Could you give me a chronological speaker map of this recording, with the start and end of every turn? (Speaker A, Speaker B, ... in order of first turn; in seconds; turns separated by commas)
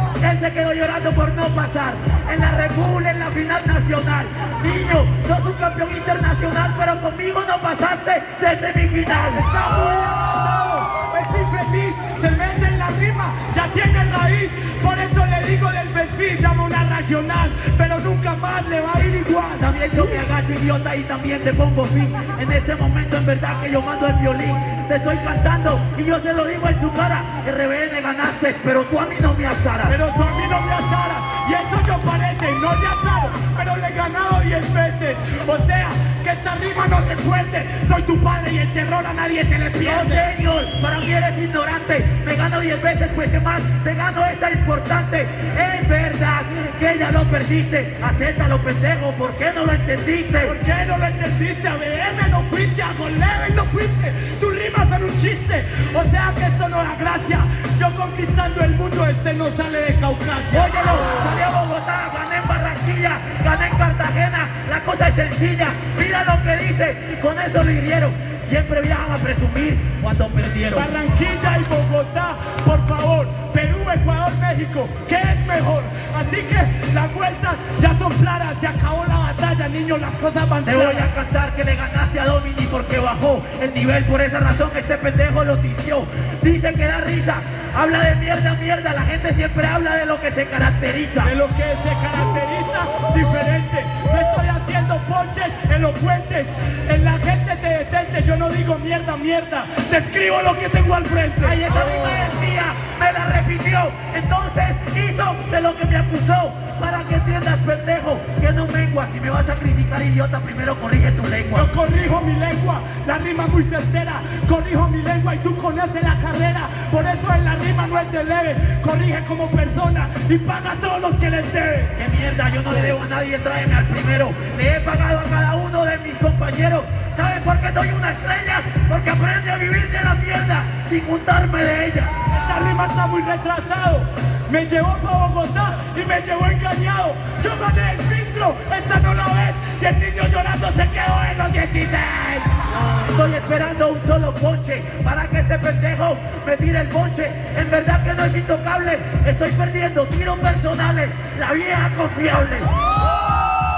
Speaker A: 0.2-9.5, Speaker B: 9.3-20.2, Speaker A: 19.6-29.9, Speaker B: 29.9-40.2, Speaker A: 39.8-50.5, Speaker B: 50.4-60.9, Speaker A: 60.5-70.9, Speaker B: 70.7-81.1, Speaker A: 80.7-91.3, Speaker B: 91.2-102.3, Speaker A: 101.4-111.7, Speaker B: 111.5-122.0, Speaker A: 122.0-132.1, Speaker B: 132.3-142.6, Speaker A: 142.9-152.7